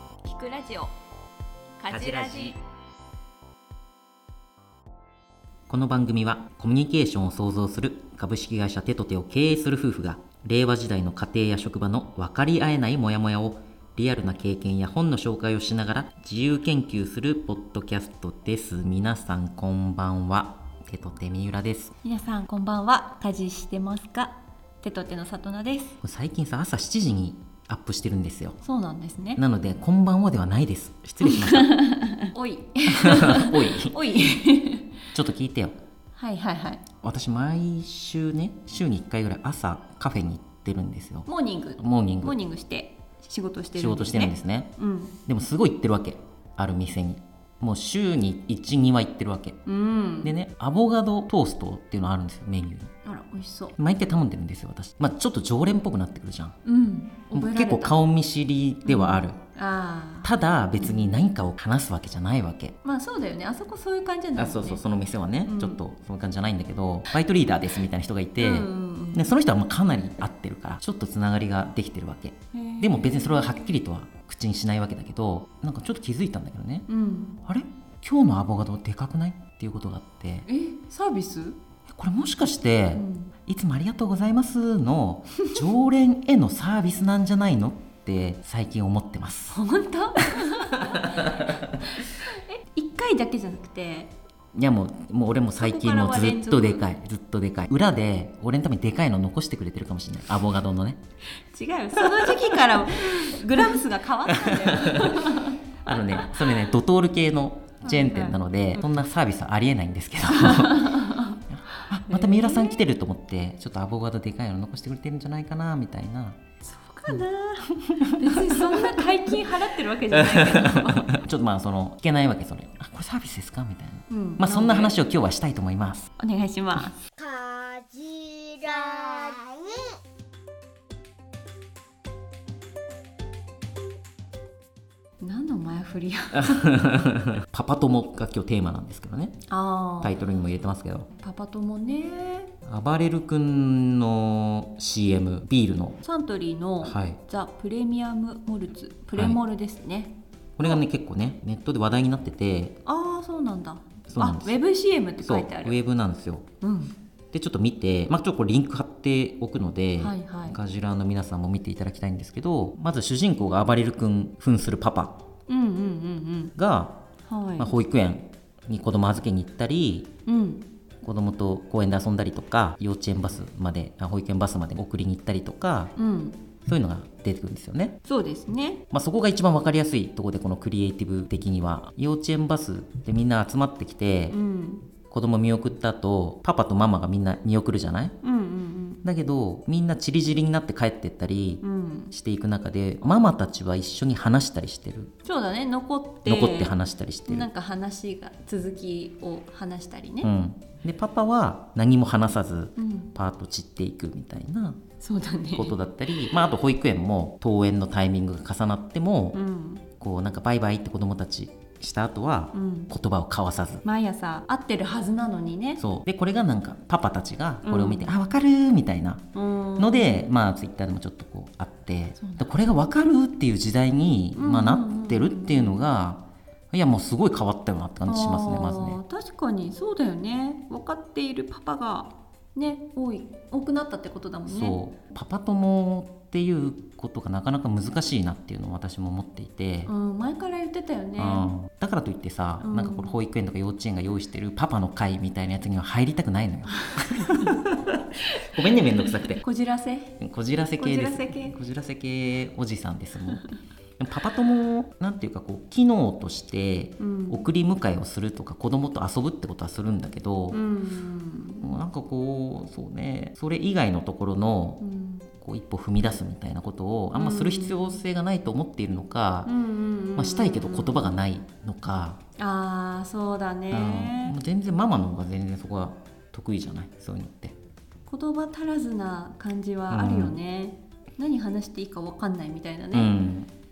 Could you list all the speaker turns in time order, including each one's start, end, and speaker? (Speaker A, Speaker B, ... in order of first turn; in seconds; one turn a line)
Speaker A: 0.2-0.9
Speaker A: 1.8-2.6
Speaker B: 1.9-2.6
Speaker B: 5.7-21.9
Speaker A: 22.0-26.0
Speaker B: 26.0-28.6
Speaker A: 28.6-29.4
Speaker B: 29.4-31.8
Speaker A: 31.2-34.9
Speaker B: 32.9-34.0
Speaker B: 35.1-35.8
Speaker A: 36.2-36.8
Speaker B: 37.0-42.4
Speaker A: 41.3-45.2
Speaker B: 43.8-44.7
Speaker B: 45.3-49.6
Speaker A: 49.7-50.3
Speaker B: 50.2-52.9
Speaker A: 53.0-53.8
Speaker B: 53.8-56.6
Speaker A: 56.6-58.0
Speaker B: 57.3-59.4
Speaker A: 58.9-61.1
Speaker B: 60.2-62.8
Speaker A: 62.8-64.8
Speaker B: 64.4-76.9
Speaker A: 65.5-65.8
Speaker A: 68.4-69.3
Speaker A: 72.5-73.5
Speaker A: 76.9-77.4
Speaker B: 77.5-80.5
Speaker A: 80.5-81.6
Speaker B: 81.9-89.6
Speaker A: 83.0-83.3
Speaker A: 89.5-94.1
Speaker B: 90.9-91.8
Speaker B: 94.5-101.0
Speaker A: 95.6-96.8
Speaker A: 101.5-106.8
Speaker B: 102.0-116.4
Speaker A: 107.8-108.8
Speaker A: 110.4-112.8
Speaker A: 116.6-121.1
Speaker B: 117.1-119.3
Speaker B: 120.1-126.1
Speaker A: 124.1-125.0
Speaker A: 126.2-127.0
Speaker C: 127.2-129.7
Speaker A: 135.2-136.7
Speaker B: 136.3-139.4
Speaker A: 139.5-140.2
Speaker B: 140.0-141.1
Speaker A: 141.2-142.5
Speaker B: 142.6-146.0
Speaker A: 146.0-150.8
Speaker B: 146.8-147.2
Speaker B: 149.1-149.4
Speaker B: 150.6-152.8
Speaker A: 152.8-155.8
Speaker B: 154.1-154.6
Speaker B: 155.2-156.5
Speaker A: 156.6-156.9
Speaker B: 157.3-165.2
Speaker A: 160.0-160.6
Speaker A: 165.5-166.5
Speaker B: 166.6-167.0
Speaker A: 167.3-167.8
Speaker B: 167.6-170.1
Speaker A: 170.3-170.7
Speaker B: 171.0-175.9
Speaker A: 176.0-176.4
Speaker B: 176.7-178.0
Speaker A: 178.1-178.8
Speaker B: 178.9-184.4
Speaker A: 184.3-184.9
Speaker B: 185.1-188.2
Speaker A: 188.2-189.0
Speaker B: 189.0-195.1
Speaker A: 191.6-192.1
Speaker A: 195.2-196.8
Speaker B: 196.2-197.5
Speaker A: 197.3-200.3
Speaker B: 200.2-204.8
Speaker A: 202.8-203.1
Speaker A: 205.0-205.8
Speaker B: 205.5-209.4
Speaker A: 209.3-209.8
Speaker B: 210.0-213.8
Speaker A: 212.5-212.9
Speaker A: 213.8-215.8
Speaker B: 215.8-229.0
Speaker A: 217.6-218.1
Speaker A: 219.3-220.3
Speaker A: 222.2-222.5
Speaker A: 224.3-225.8
Speaker A: 228.1-234.8
Speaker B: 234.5-239.9
Speaker A: 239.9-241.5
Speaker B: 241.2-249.4
Speaker A: 242.6-243.1
Speaker A: 247.2-247.5
Speaker A: 249.4-250.2
Speaker B: 250.2-253.5
Speaker A: 250.8-251.6
Speaker B: 254.0-260.6
Speaker A: 257.0-257.5
Speaker A: 260.5-261.8
Speaker B: 261.6-264.8
Speaker A: 264.8-265.3
Speaker B: 265.3-269.5
Speaker A: 267.1-268.0
Speaker A: 269.5-271.2
Speaker B: 270.1-272.2
Speaker A: 272.4-274.4
Speaker B: 273.7-277.6
Speaker A: 278.1-283.1
Speaker B: 279.9-280.4
Speaker B: 282.9-283.5